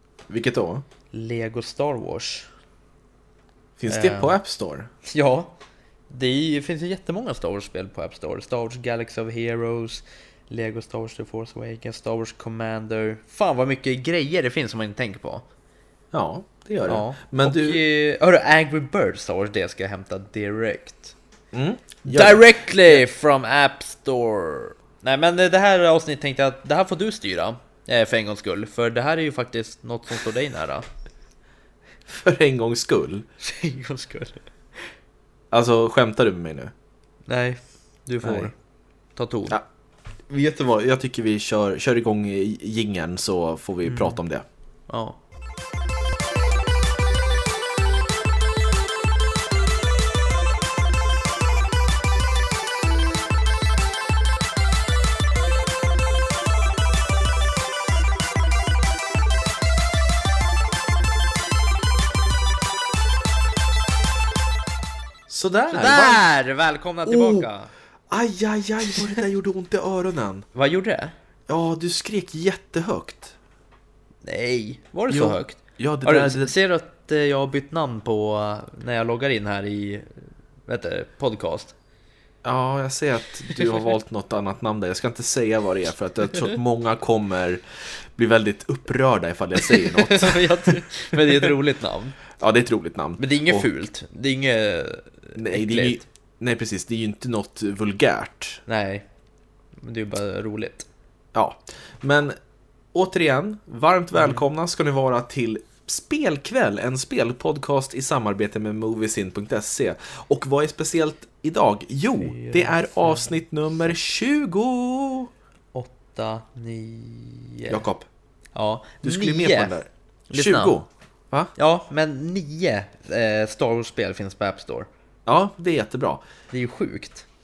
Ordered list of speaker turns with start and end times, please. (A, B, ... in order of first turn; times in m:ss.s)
0:00.3-0:00.8 A
0:01.1-0:02.5 B
0:03.8-0:04.9 A
0:03.9-0:04.4 B
0:05.1-0:05.5 B
0:06.1-0:15.4 B
0:16.1-0:17.8 A
0:16.9-0:21.1 B
0:21.5-0:23.0 A
0:22.0-0:30.9 B
0:32.0-0:33.2 A
0:33.4-0:34.4 B
0:35.5-0:36.7 A
0:37.2-0:38.5 B
0:38.2-0:38.5 A
0:39.2-0:39.6 B
0:40.3-0:44.4 A
0:43.8-0:44.2 B
0:44.9-0:45.2 B
1:05.3-1:06.3 A
1:05.7-1:07.7 B
1:07.0-1:07.5 A
1:08.1-1:10.5 A
1:08.9-1:09.1 B
1:10.5-1:11.1 B
1:11.5-1:13.3 A
1:14.2-1:21.7 B
1:15.1-1:16.5 A
1:22.4-1:27.6 A
1:28.1-1:31.5 A
1:29.6-1:32.2 B
1:32.3-1:33.7 A
1:33.2-1:36.0 B
1:35.4-1:38.6 A
1:38.7-1:39.0 B
1:39.8-1:40.9 B
1:41.3-1:42.4 A
1:42.9-1:55.3 A
1:44.2-1:44.4 B
1:52.2-1:53.4 B
1:55.7-1:57.8 B
1:57.7-1:58.1 A
1:58.5-1:59.8 B
1:59.0-2:01.5 A
2:00.3-2:00.7 B
2:01.6-2:04.9 B
2:05.2-2:06.2 A
2:06.5-2:07.2 B